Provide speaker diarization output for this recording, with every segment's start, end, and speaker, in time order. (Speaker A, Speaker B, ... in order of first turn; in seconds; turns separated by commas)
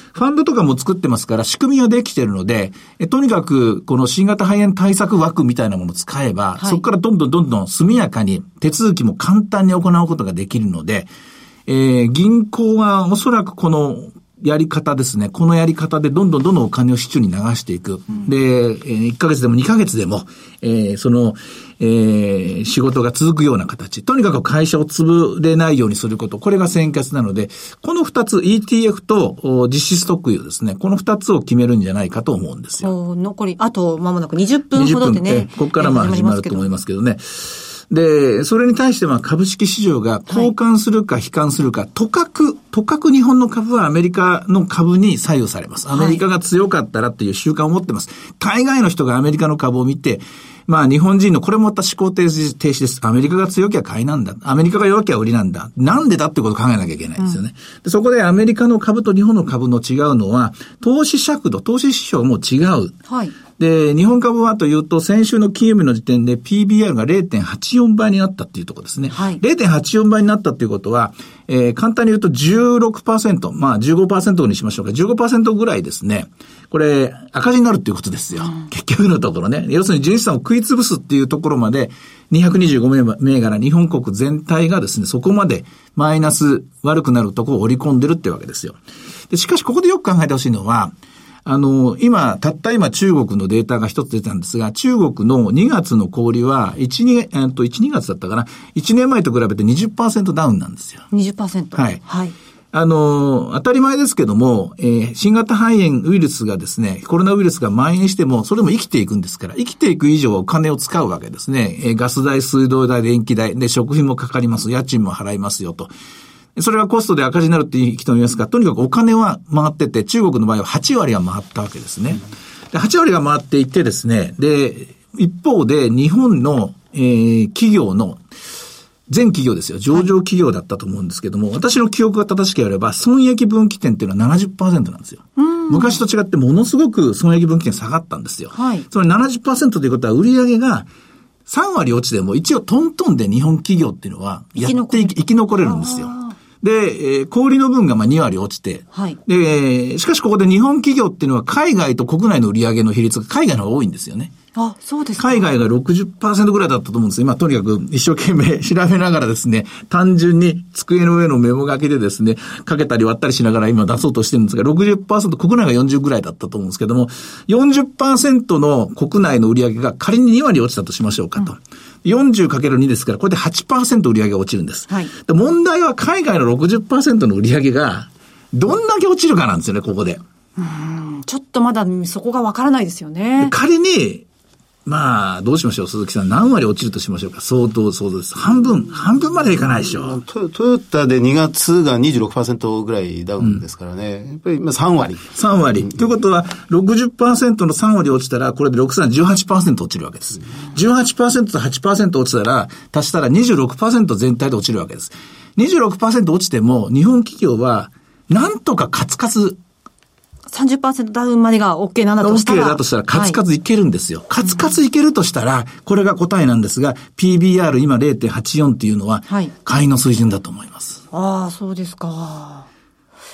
Speaker A: 0.1-11.1, Speaker A: 11.7-32.9, Speaker B: 32.8-36.7, Speaker A: 34.8-63.0, Speaker B: 45.9-46.2, Speaker B: 63.1-63.4, Speaker A: 63.5-88.8, Speaker B: 69.1-69.4, Speaker A: 89.3-90.9, Speaker A: 91.5-101.1, Speaker B: 101.1-102.3, Speaker A: 101.7-102.0, Speaker A: 102.7-115.9, Speaker A: 116.6-128.2, Speaker A: 129.1-140.9, Speaker B: 135.4-136.0, Speaker B: 138.5-138.8, Speaker A: 141.5-154.3, Speaker B: 144.6-146.4, Speaker B: 148.9-149.2, Speaker B: 154.6-155.5, Speaker A: 155.2-180.2, Speaker B: 180.6-183.5, Speaker A: 183.4-184.2, Speaker A: 184.9-190.2, Speaker C: 189.8-195.3, Speaker A: 195.3-209.6, Speaker B: 210.5-213.4, Speaker A: 212.2-221.0, Speaker B: 221.1-222.7